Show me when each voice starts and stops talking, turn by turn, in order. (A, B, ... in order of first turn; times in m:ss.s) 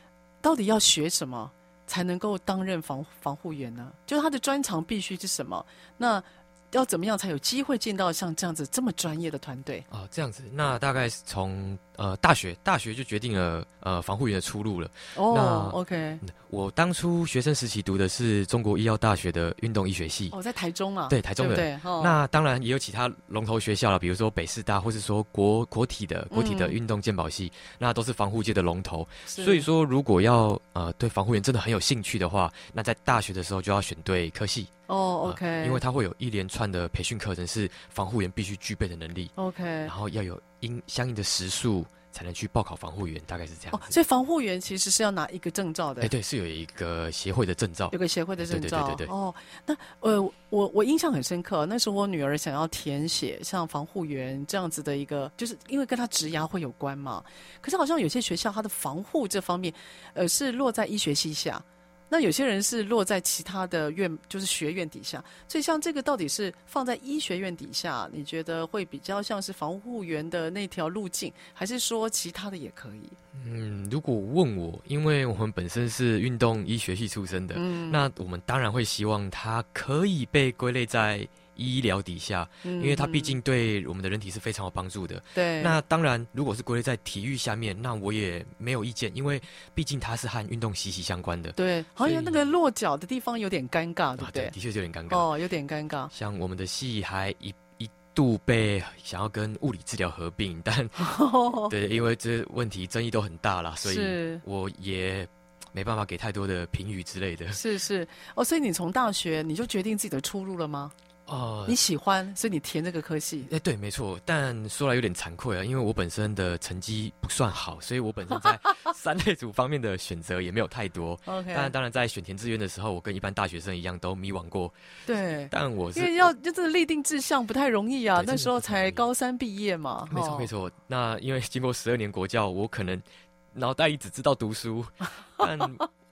0:00.4-0:09.8 A
0:09.9-0:20.3 B
0:15.1-0:16.2 A
0:20.3-0:22.2 A
0:21.1-0:34.7 B
0:26.3-0:26.8 A
0:29.3-0:29.7 A
0:34.9-0:35.8 A
0:35.2-0:39.3 B
0:39.4-0:39.9 A
0:39.8-0:44.0 B
0:43.7-0:46.1 A
0:46.0-0:47.9 B
0:47.9-1:13.2 A
0:48.4-0:49.1 B
1:13.3-1:32.4 B
1:17.5-1:18.0 A
1:22.6-1:23.4 A
1:25.3-1:25.8 A
1:31.6-1:34.5 A
1:34.2-1:35.3 B
1:35.1-1:36.1 A
1:36.1-1:41.1 B
1:41.0-1:41.7 A
1:41.7-1:47.6 B
1:43.8-1:44.4 A
1:47.5-1:50.9 A
1:51.3-1:51.8 B
1:51.7-1:53.5 A
1:53.5-2:04.8 B
2:01.2-2:01.7 A
2:05.0-2:10.5 A
2:05.5-2:06.3 B
2:08.2-2:09.0 B
2:10.1-2:15.9 B